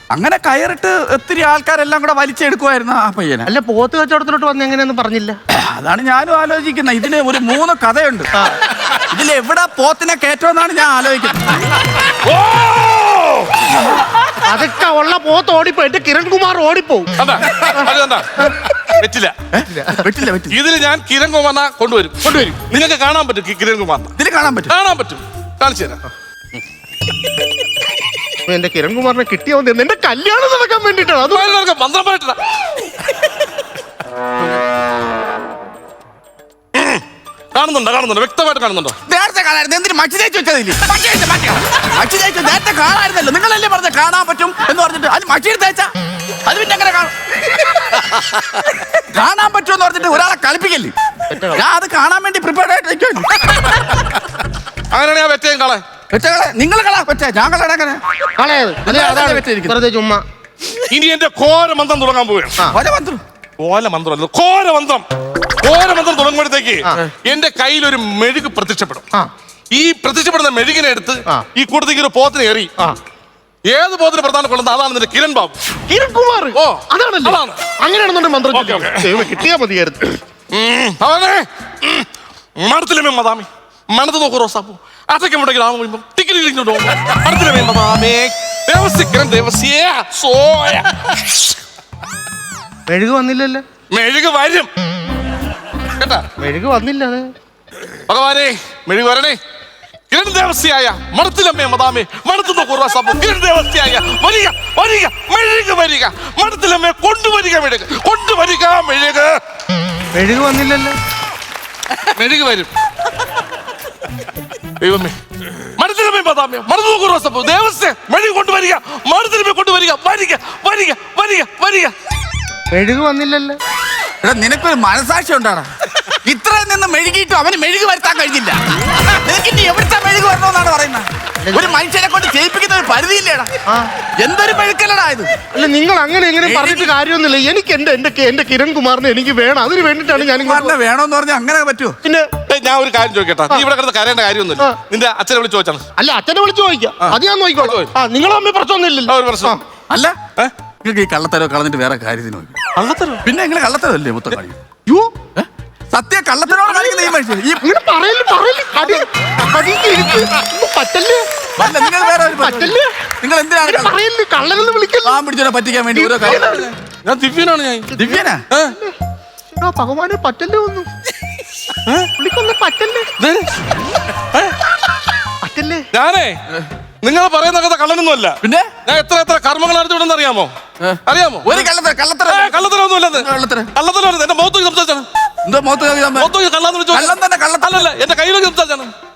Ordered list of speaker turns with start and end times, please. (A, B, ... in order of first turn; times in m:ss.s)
0:00.1-0:03.5 A
0:03.4-0:05.4 B
0:05.5-0:08.3 A
0:08.9-0:11.7 A
0:12.2-0:13.8 C
0:14.4-0:17.1 B
0:17.2-0:18.3 C
0:18.9-0:19.3 C
0:19.5-0:20.6 A
0:19.7-0:20.1 B
0:20.5-0:24.2 C
0:22.2-0:22.6 B
0:24.2-0:24.7 A
0:24.7-0:26.0 C
0:28.4-0:31.5 B
0:31.2-0:32.4 C
0:36.7-0:37.0 C
0:37.5-0:39.0 C
0:39.1-0:45.9 A
0:46.4-0:50.9 A
0:51.3-0:51.6 B
0:51.5-0:53.9 A
0:54.9-0:55.8 C
0:56.1-0:58.0 A
0:58.4-1:00.2 B
0:58.8-0:59.8 A
1:00.9-1:02.6 C
1:02.7-1:03.2 A
1:03.6-1:05.0 C
1:05.6-1:09.0 C
1:09.7-1:12.7 C
1:13.7-1:15.6 C
1:15.9-1:20.2 B
1:16.5-1:17.6 C
1:18.5-1:19.4 C
1:20.5-1:22.1 C
1:22.6-1:31.5 C
1:32.9-1:33.6 B
1:33.9-1:34.7 C
1:36.0-1:36.2 C
1:36.4-1:37.3 B
1:38.1-1:39.4 C
1:40.1-1:49.4 C
1:50.1-1:51.0 B
1:52.1-1:52.7 C
1:54.8-2:01.9 C
2:02.7-2:03.6 B
2:04.2-2:05.7 A
2:06.2-2:13.5 A
2:11.4-2:11.8 B
2:14.2-2:15.3 A
2:15.5-2:20.8 B
2:16.4-2:16.9 A
2:20.3-2:22.0 A
2:22.5-2:25.8 C
2:26.0-2:29.6 B
2:27.0-2:27.9 C
2:29.1-2:29.6 C
2:30.8-2:32.5 A
2:32.8-2:33.2 C
2:33.2-2:34.6 A
2:34.9-2:35.1 B
2:35.4-2:37.6 A
2:36.5-2:37.1 B
2:37.6-2:41.7 B
2:41.6-2:43.9 A
2:42.4-2:42.9 B
2:43.6-2:45.2 B
2:45.0-2:46.6 A
2:45.9-2:46.7 B
2:46.6-2:47.9 C
2:47.9-2:48.9 B
2:48.0-2:48.4 A
2:49.6-2:50.9 B
2:52.2-2:53.1 B
2:55.4-2:55.9 B
2:55.9-2:56.3 C
2:57.0-3:00.5 C
2:58.4-2:58.7 A
3:00.8-3:02.6 A
3:01.0-3:01.6 C
3:02.3-3:05.0 C
3:03.1-3:03.7 A
3:05.4-3:06.3 A
3:06.2-3:08.9 C
3:06.9-3:07.8 A